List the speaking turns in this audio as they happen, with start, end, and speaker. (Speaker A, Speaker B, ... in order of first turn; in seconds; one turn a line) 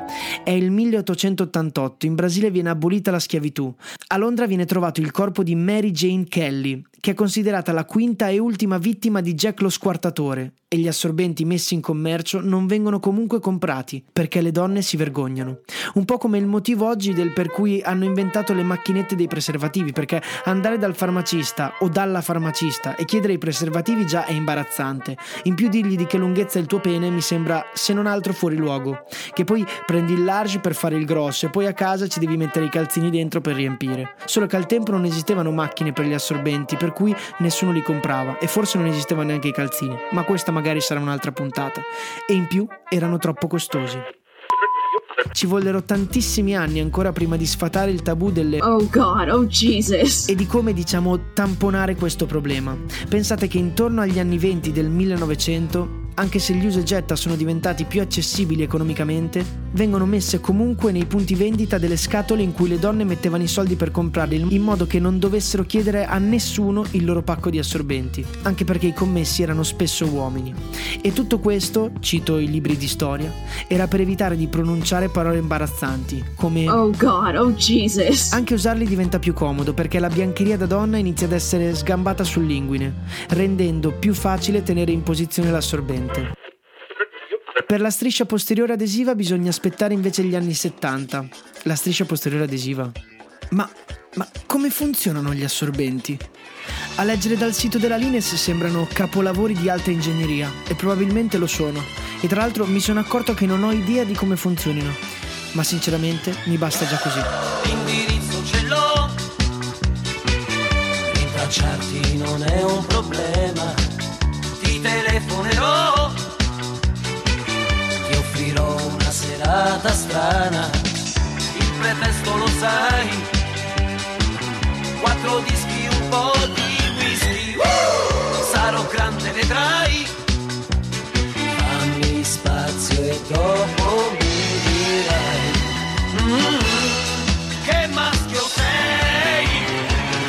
Speaker A: 0.5-44.1
Speaker A: 45.3-48.7
Speaker B: 48.6-50.3
Speaker A: 50.3-76.8
Speaker B: 76.7-78.3
Speaker A: 78.3-86.3
Speaker A: 87.7-93.0
Speaker A: 93.5-96.2
Speaker A: 97.0-105.0
Speaker A: 105.5-107.3
Speaker C: 107.6-109.2
Speaker C: 111.1-113.8
Speaker C: 114.6-116.2
Speaker C: 118.1-120.9
Speaker C: 121.5-123.3
Speaker C: 125.0-130.1
Speaker C: 131.6-139.7